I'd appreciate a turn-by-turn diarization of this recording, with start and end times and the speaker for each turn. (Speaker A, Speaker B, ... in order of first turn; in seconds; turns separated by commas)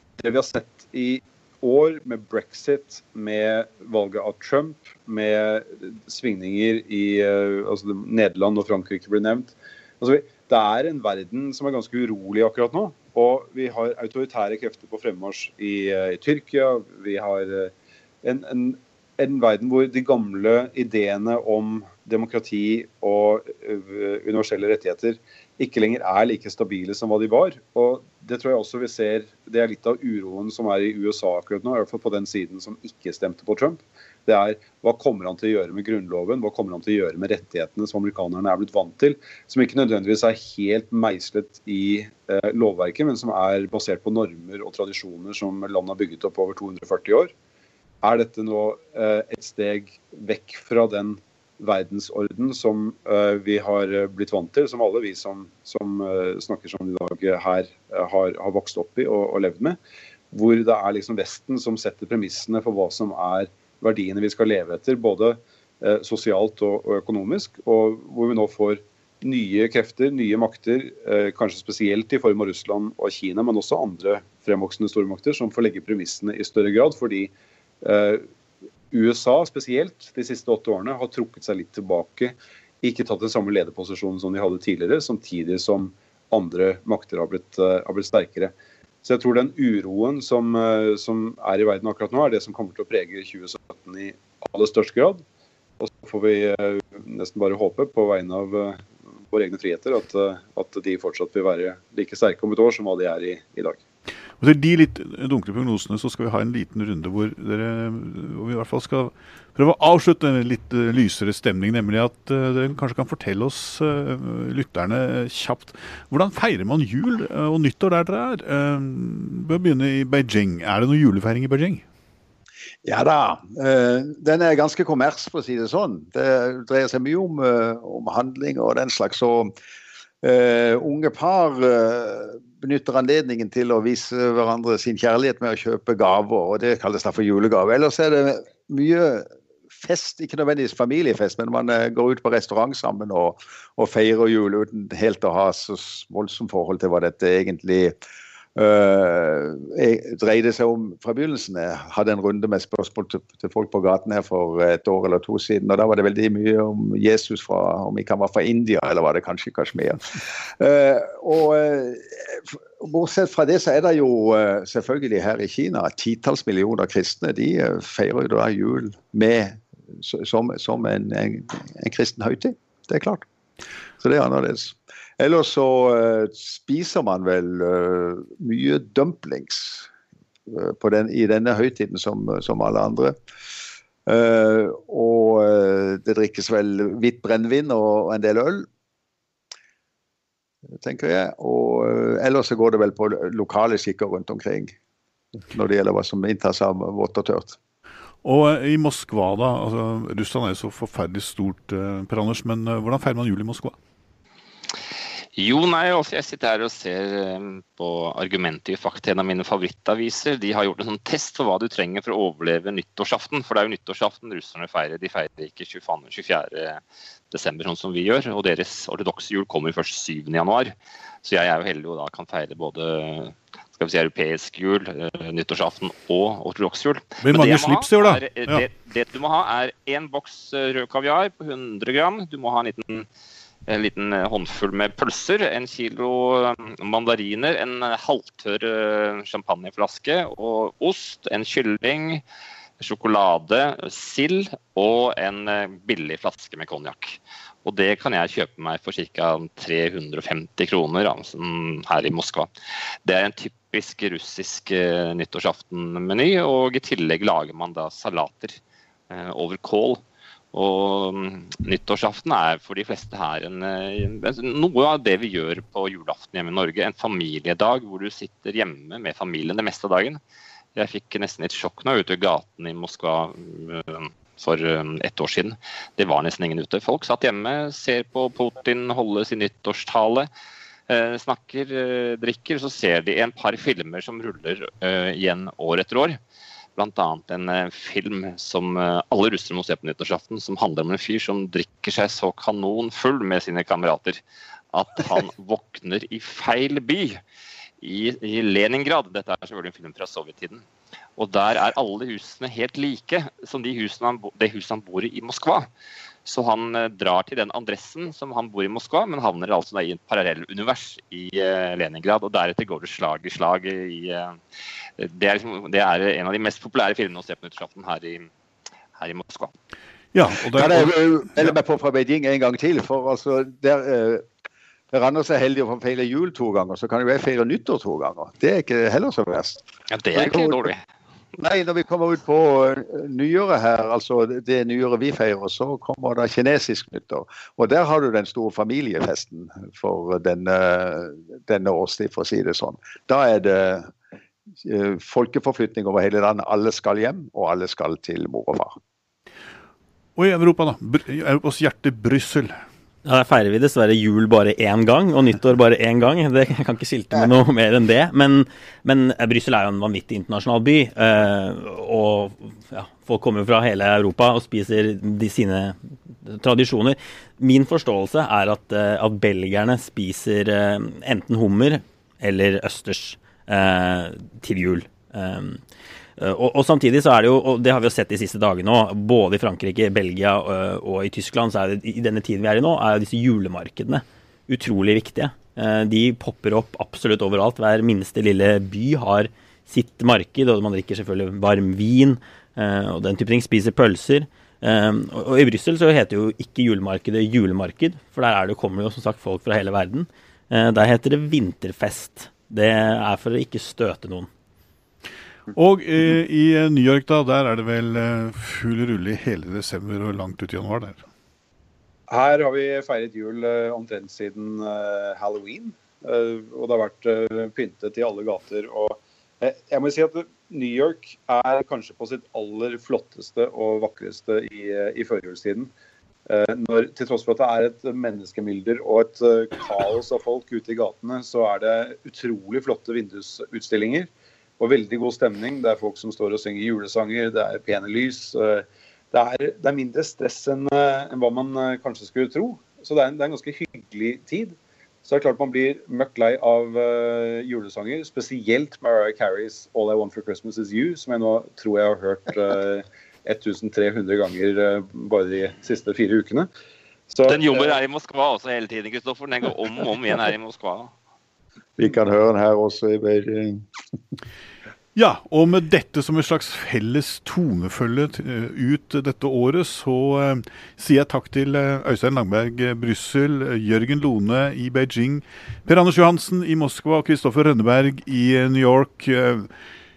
Speaker A: 0.2-47.3, Speaker A: 48.0-59.8, Speaker A: 60.3-78.3, Speaker A: 78.9-95.2, Speaker A: 95.8-103.8, Speaker B: 104.4-121.8, Speaker C: 122.8-129.5, Speaker C: 130.2-148.0, Speaker C: 148.6-173.3, Speaker C: 174.0-179.9, Speaker C: 180.5-183.2, Speaker C: 184.1-188.7, Speaker C: 190.7-194.8, Speaker C: 195.4-197.6, Speaker B: 198.2-203.8, Speaker D: 205.4-233.1, Speaker B: 227.2-228.6, Speaker D: 233.7-242.2, Speaker D: 242.8-252.5, Speaker D: 253.1-270.2, Speaker D: 270.8-280.3, Speaker D: 280.9-286.2, Speaker D: 286.8-294.2, Speaker D: 294.7-297.2, Speaker D: 297.8-300.6, Speaker D: 301.2-305.7, Speaker D: 306.2-314.4, Speaker D: 315.0-318.3, Speaker D: 318.9-319.5, Speaker B: 320.1-321.5, Speaker C: 320.6-324.2, Speaker C: 324.9-330.7, Speaker D: 329.9-330.8, Speaker C: 331.4-343.9, Speaker C: 344.6-348.8, Speaker B: 350.1-352.6, Speaker E: 353.1-375.6, Speaker E: 376.2-404.3, Speaker B: 405.5-411.0, Speaker A: 412.1-425.7, Speaker A: 426.3-456.5, Speaker A: 457.1-457.8, Speaker D: 457.3-460.9, Speaker C: 461.8-463.7, Speaker B: 464.9-479.5